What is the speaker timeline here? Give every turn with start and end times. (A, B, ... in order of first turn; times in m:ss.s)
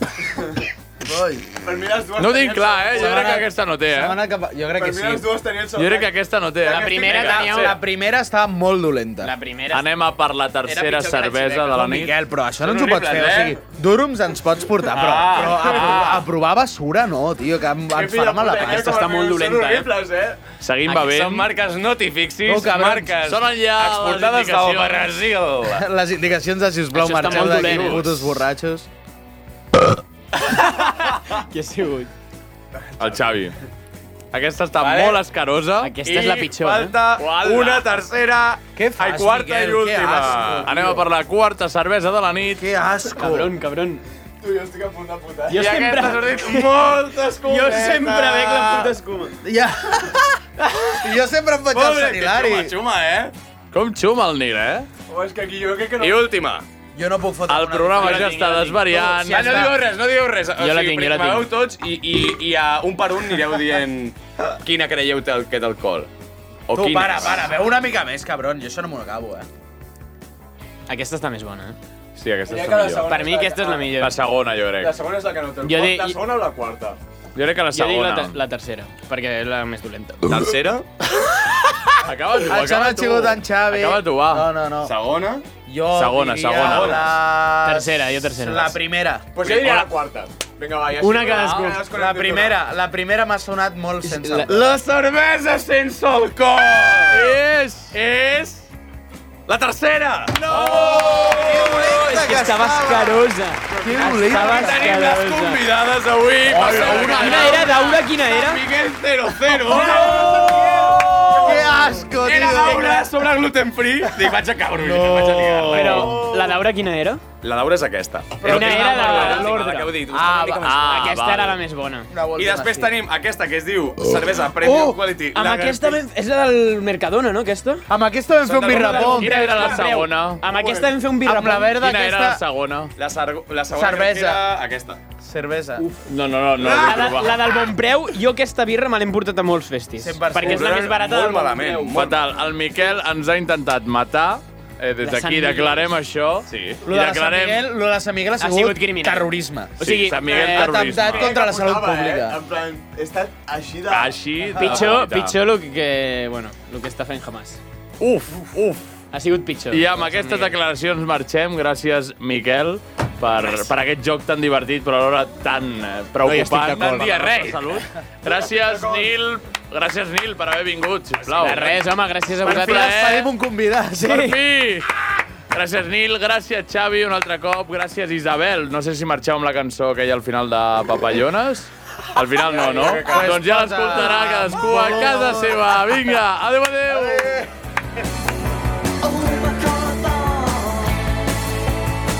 0:01.0-0:01.5 A
0:01.6-0:03.3 B
0:02.2-0:04.2 C
0:02.9-0:05.3 A
0:04.7-0:06.1 B
0:05.8-0:07.5 C
0:06.6-0:07.8 D
0:06.7-0:07.8 E
0:07.2-0:09.3 A
0:09.2-0:09.9 D
0:09.7-0:12.2 C
0:10.6-0:11.9 D
0:11.7-0:19.0 A
0:12.6-0:13.6 E
0:14.8-0:16.2 E
0:17.9-0:20.4 B
0:18.6-0:19.9 D
0:19.4-0:19.9 E
0:20.6-0:21.5 C
0:20.9-0:25.9 E
0:22.4-0:23.2 A
0:23.2-0:25.2 C
0:25.8-0:28.9 A
0:26.9-0:28.1 D
0:27.6-0:28.0 E
0:30.5-0:32.1 D
0:32.8-0:33.3 B
0:33.0-0:33.6 C
0:34.3-0:36.0 C
0:34.8-0:35.2 E
0:35.8-0:37.0 D
0:36.0-0:38.6 E
0:37.2-0:38.0 C
0:38.8-0:41.0 A
0:39.0-0:42.6 C
0:40.1-0:40.7 E
0:42.6-0:43.6 A
0:43.1-0:44.0 D
0:44.4-0:45.7 B
0:45.5-0:46.9 D
0:45.6-0:46.1 C
0:45.7-0:48.5 E
0:47.4-0:49.4 D
0:48.4-0:50.4 A
0:51.0-0:52.8 A
0:51.7-0:53.3 E
0:53.7-0:54.9 C
0:55.1-0:56.3 B
0:56.0-0:56.6 E
0:56.9-0:59.8 A
0:57.5-0:59.7 C
0:58.0-0:58.4 E
0:59.2-1:06.1 E
1:00.6-1:01.5 D
1:06.7-1:07.6 E
1:06.7-1:09.5 A
1:10.9-1:11.8 D
1:12.2-1:13.3 C
1:12.4-1:14.0 B
1:13.0-1:14.2 D
1:14.0-1:15.0 C
1:14.8-1:17.0 B
1:15.6-1:16.2 D
1:17.4-1:18.4 C
1:17.7-1:20.2 D
1:20.3-1:20.9 E
1:22.0-1:24.5 C
1:22.3-1:24.9 A
1:24.8-1:25.4 E
1:25.7-1:29.3 A
1:25.9-1:27.2 C
1:26.6-1:27.1 E
1:27.6-1:28.8 D
1:29.3-1:32.6 B
1:29.4-1:29.9 E
1:31.0-1:31.8 D
1:31.3-1:31.7 C
1:31.9-1:34.8 A
1:34.0-1:34.6 D
1:34.4-1:37.4 E
1:37.1-1:38.0 C
1:37.9-1:38.7 E
1:39.5-1:42.2 E
1:40.4-1:44.9 A
1:41.5-1:45.6 D
1:43.8-1:56.3 E
1:46.5-1:47.6 C
1:46.5-1:47.6 A
1:46.8-1:48.6 D
1:49.5-1:53.1 A
1:49.8-1:51.6 B
1:54.0-1:56.5 A
1:55.7-1:57.2 D
1:57.4-2:01.1 E
1:58.4-1:59.6 A
1:58.4-1:59.9 D
2:00.1-2:01.0 A
2:00.6-2:01.6 C
2:00.8-2:02.1 D
2:02.1-2:02.9 A
2:02.4-2:06.0 E
2:04.6-2:07.9 D
2:07.9-2:09.4 A
2:08.4-2:09.9 E
2:08.7-2:10.4 C
2:08.7-2:11.7 D
2:10.4-2:11.0 B
2:11.2-2:12.4 A
2:11.7-2:12.9 C
2:13.0-2:15.0 E
2:13.7-2:14.4 A
2:15.2-2:15.9 A
2:15.8-2:16.1 D
2:16.0-2:17.5 C
2:16.6-2:22.0 D
2:16.6-2:17.1 E
2:20.0-2:20.9 A
2:20.4-2:22.3 E
2:21.9-2:27.7 C
2:25.0-2:25.9 D
2:26.5-2:26.8 E
2:26.8-2:32.4 A
2:28.4-2:30.8 D
2:29.8-2:31.3 C
2:30.9-2:34.2 B
2:33.9-2:35.4 C
2:34.6-2:34.9 A
2:34.6-2:37.6 D
2:38.0-2:39.0 C
2:39.1-2:40.6 D
2:39.7-2:51.8 C
2:43.3-2:43.7 D
2:46.4-2:47.1 E
2:46.6-2:47.5 D
2:48.6-2:49.1 B
2:51.4-2:53.0 D
2:51.4-2:51.8 E
2:52.4-2:53.3 C
2:52.4-2:54.3 A
2:54.0-2:54.4 D
2:54.0-3:07.4 C
3:02.4-3:03.4 B
3:02.6-3:05.8 A
3:06.9-3:07.5 A